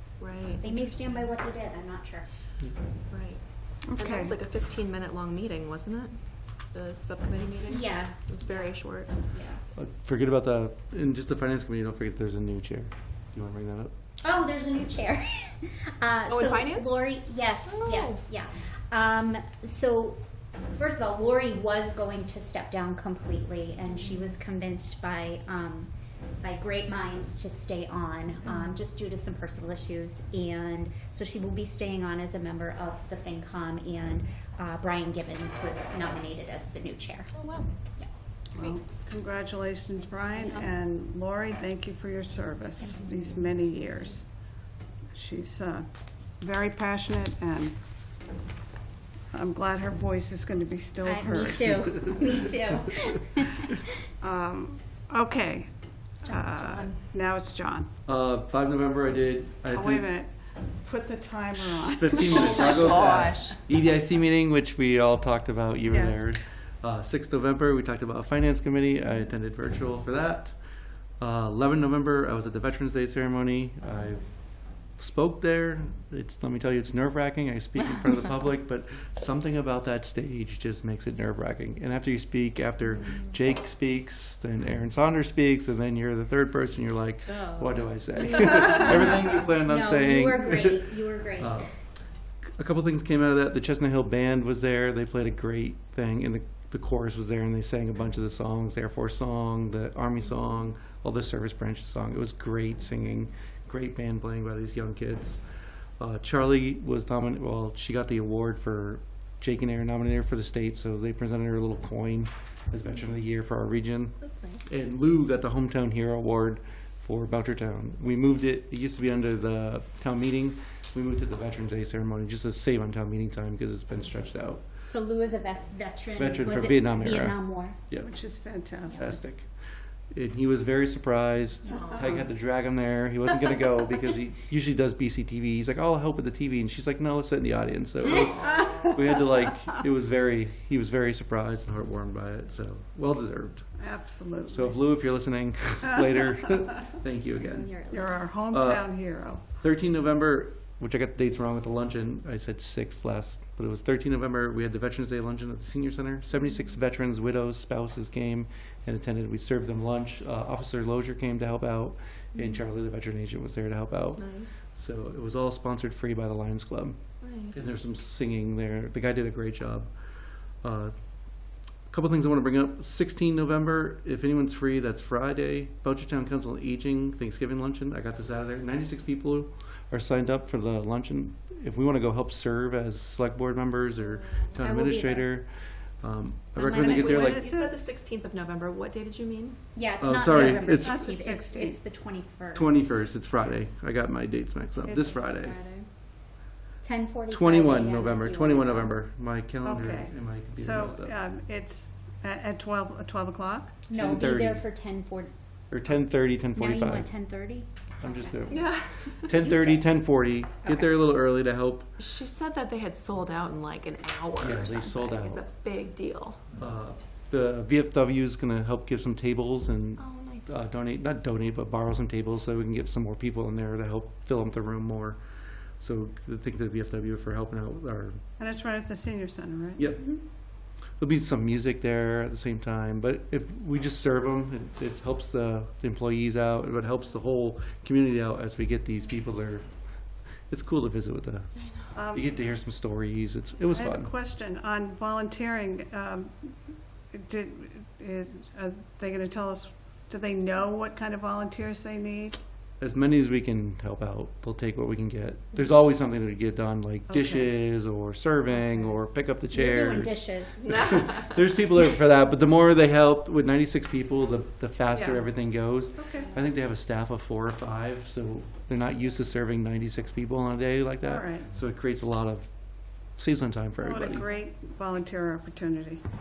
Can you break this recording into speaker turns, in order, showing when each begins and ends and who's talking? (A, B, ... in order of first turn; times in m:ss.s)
0:00.2-0:01.3 A
0:00.6-0:02.3 B
0:03.1-0:03.4 A
0:03.8-0:04.3 C
0:04.0-0:09.2 A
0:07.7-0:09.6 B
0:09.7-0:13.9 D
0:14.2-0:25.9 B
0:16.3-0:17.0 A
0:17.7-0:18.2 A
0:26.4-0:37.3 B
0:37.3-0:37.7 A
0:38.6-0:44.3 C
0:40.4-0:40.7 B
0:42.8-0:44.1 B
0:45.1-0:45.9 C
0:46.4-0:47.8 C
0:49.3-0:52.5 C
0:51.0-0:53.9 B
0:54.2-0:55.7 C
0:56.2-0:57.9 C
0:56.3-0:57.0 A
0:58.0-1:00.1 D
0:59.7-1:00.3 C
1:00.8-1:03.4 C
1:01.8-1:10.6 D
1:02.3-1:03.6 A
1:05.9-1:06.3 C
1:11.2-1:30.8 D
1:29.7-1:31.6 B
1:31.4-1:31.8 D
1:32.6-1:45.4 D
1:46.0-2:04.6 D
1:54.2-1:54.7 A
2:04.9-2:07.8 B
2:06.2-2:08.1 D
2:08.0-2:09.2 C
2:08.9-2:09.5 D
2:10.1-2:23.7 D
2:11.7-2:12.3 A
2:18.2-2:18.8 A
2:23.8-2:24.8 C
2:24.5-2:27.7 D
2:27.4-2:28.3 B
2:27.9-2:29.4 C
2:28.5-2:28.9 D
2:29.5-2:47.0 D
2:42.4-2:42.6 A
2:44.1-2:44.6 A
2:47.2-2:47.7 A
2:47.5-2:49.9 D
2:50.6-2:50.9 D
2:51.9-3:05.5 D
3:04.6-3:05.3 B
3:06.0-3:07.4 D
3:06.6-3:06.9 B
3:06.7-3:07.8 C
3:06.7-3:09.6 A
3:09.8-3:13.1 B
3:10.0-3:11.0 D
3:10.3-3:11.8 C
3:12.5-3:15.6 D
3:14.8-3:15.3 C
3:15.0-3:15.9 A
3:16.8-3:19.0 B
3:17.3-3:21.2 D
3:19.6-3:23.8 C
3:23.9-3:25.3 B
3:23.9-3:24.6 D
3:25.7-3:27.1 D
3:26.6-3:27.7 B
3:28.0-3:31.9 D
3:28.5-3:29.3 A
3:29.4-3:29.9 B
3:32.0-3:36.5 A
3:34.4-3:35.4 D
3:36.6-3:45.2 D
3:40.0-3:40.5 A
3:45.8-3:48.2 D
3:48.4-3:49.8 C
3:49.8-3:50.2 D
3:51.0-3:59.7 D
4:00.5-4:01.5 D
4:01.9-4:02.3 C
4:02.1-4:04.1 D
4:03.7-4:06.5 C
4:07.1-4:12.4 C
4:12.8-4:32.5 D
4:17.1-4:17.5 C
4:19.5-4:20.9 B
4:20.6-4:21.4 A
4:24.9-4:25.3 C
4:26.0-4:26.3 C
4:31.1-4:31.5 C
4:33.2-4:34.3 D
4:33.8-4:36.0 C